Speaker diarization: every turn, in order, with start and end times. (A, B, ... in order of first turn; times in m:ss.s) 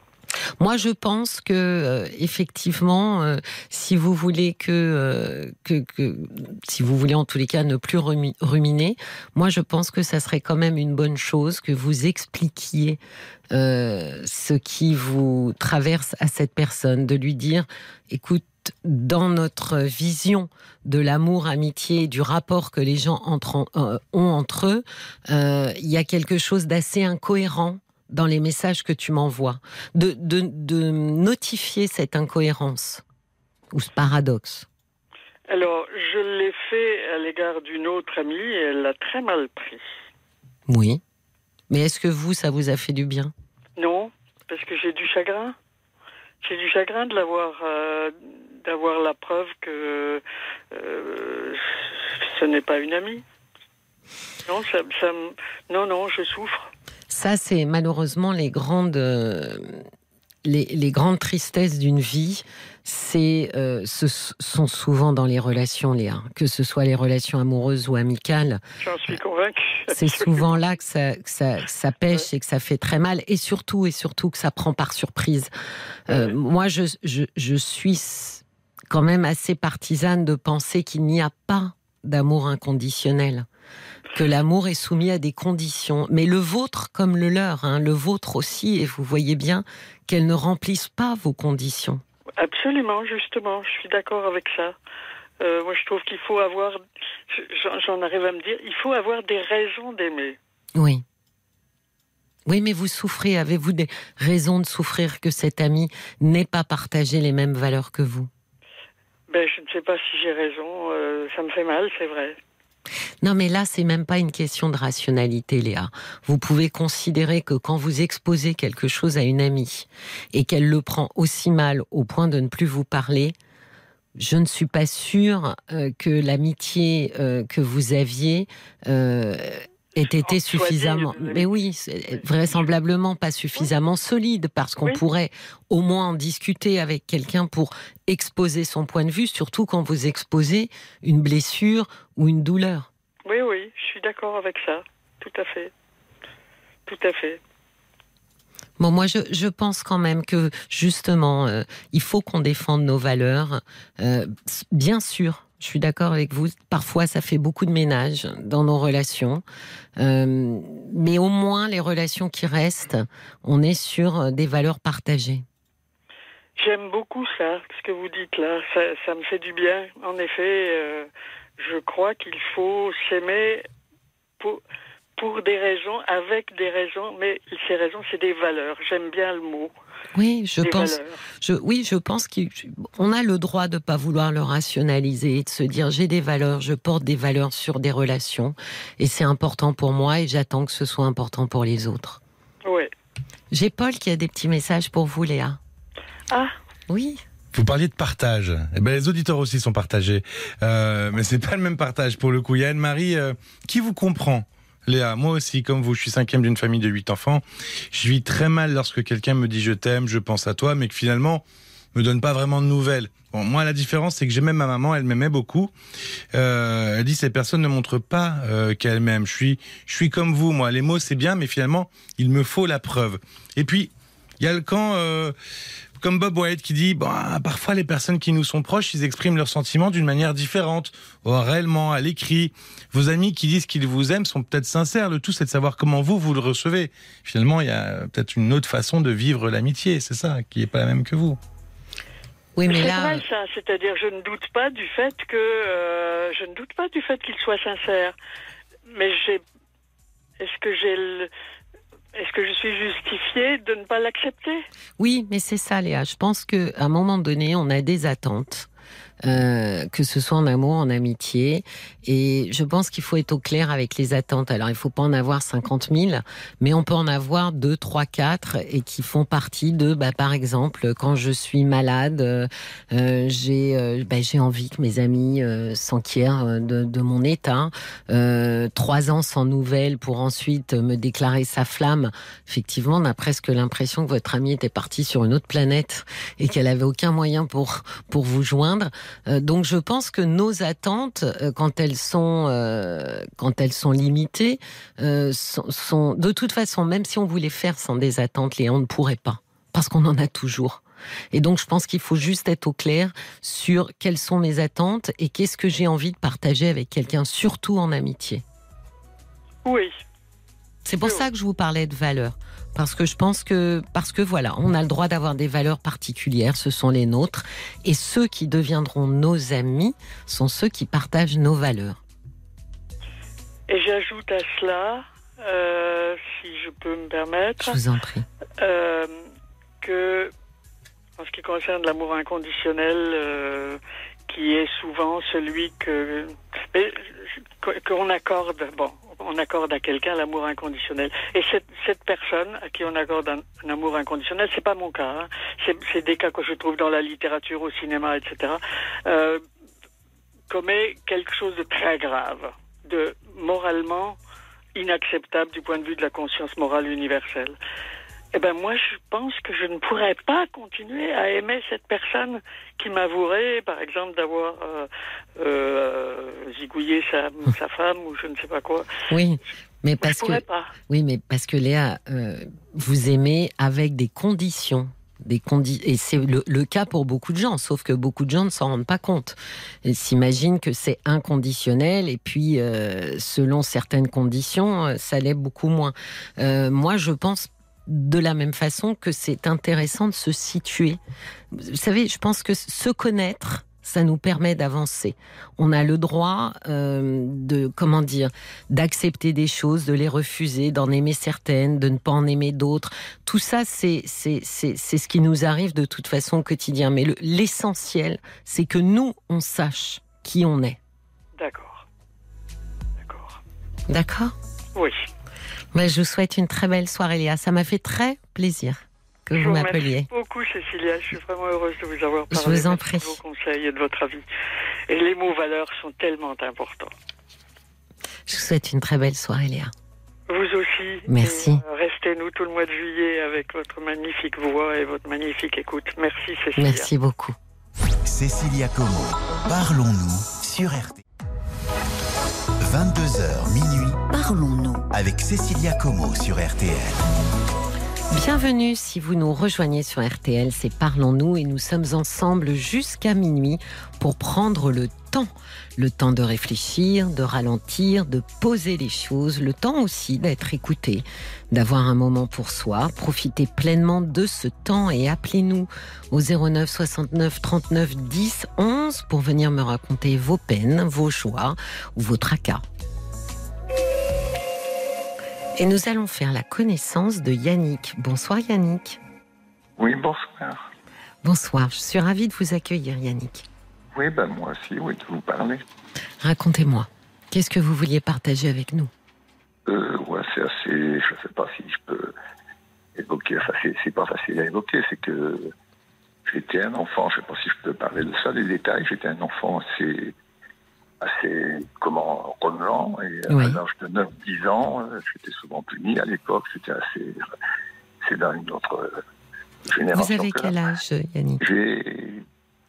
0:00.6-0:13.0 A
0:13.5-0:33.0 A
0:33.7-0:34.7 A
0:35.5-0:39.8 B
0:40.7-0:41.0 A
0:41.7-0:43.3 A
0:43.8-0:45.6 B
0:46.4-0:53.2 B
0:54.5-0:56.7 B
0:57.1-0:59.8 A
1:00.4-1:08.6 A
1:08.8-1:10.5 B
1:09.9-1:15.5 A
1:16.1-1:23.4 A
1:24.1-1:32.0 A
1:32.4-1:34.8 B
1:35.4-1:40.4 B
1:40.7-1:41.0 A
1:42.4-1:48.3 A
1:49.3-1:52.4 B
1:53.2-2:03.4 A
2:04.2-2:22.9 A
2:10.0-2:11.5 B
2:12.1-2:12.6 B
2:23.3-2:25.7 B
2:26.9-2:27.4 B
2:28.8-2:39.4 A
2:40.0-2:45.4 A
2:46.6-2:53.7 B
2:55.2-2:59.7 B
3:00.1-3:12.2 A
3:00.6-3:01.2 B
3:12.6-3:12.9 B
3:13.5-3:15.6 A
3:16.9-3:17.2 A
3:17.5-3:35.7 C
3:36.3-3:45.4 C
3:46.0-4:01.4 C
4:02.6-4:03.2 A
4:02.7-4:08.1 B
4:08.9-4:09.4 B
4:10.4-4:11.3 B
4:12.1-4:14.6 B
4:15.0-4:18.7 A
4:19.2-5:08.4 A
5:09.6-5:09.9 B
5:10.8-5:22.0 A
5:23.7-5:27.8 B
5:27.6-5:28.2 A
5:28.6-5:29.3 B
5:29.8-5:30.3 B
5:31.2-5:49.4 B
5:50.5-5:54.2 B
5:54.8-5:57.6 B
5:58.3-6:08.9 B
6:09.1-6:31.0 A
6:10.0-6:10.7 B
6:31.5-6:50.8 A
6:51.4-6:51.8 B
6:53.0-6:53.4 B
6:53.9-6:54.4 A
6:54.8-6:55.0 B
6:55.7-7:00.1 A
6:59.3-7:04.3 B
7:02.3-7:03.2 A
7:04.9-7:06.9 B
7:08.3-7:09.7 A
7:10.3-7:16.9 B
7:11.1-7:11.6 A
7:16.6-7:17.4 A
7:18.0-7:21.0 D
7:22.6-7:24.0 D
7:24.1-7:24.8 A
7:24.9-7:27.0 D
7:28.1-7:52.6 A
7:55.6-7:59.0 A
7:59.8-8:00.7 E
8:01.2-8:03.5 A
8:03.9-8:05.6 E
8:06.2-8:08.9 A
8:09.7-8:12.1 E
8:13.0-8:15.5 E
8:16.2-8:20.1 E
8:21.0-8:27.2 E
8:23.3-8:23.6 A
8:28.0-8:29.0 E
8:29.6-8:30.5 E
8:29.9-8:31.4 A
8:31.4-8:32.2 E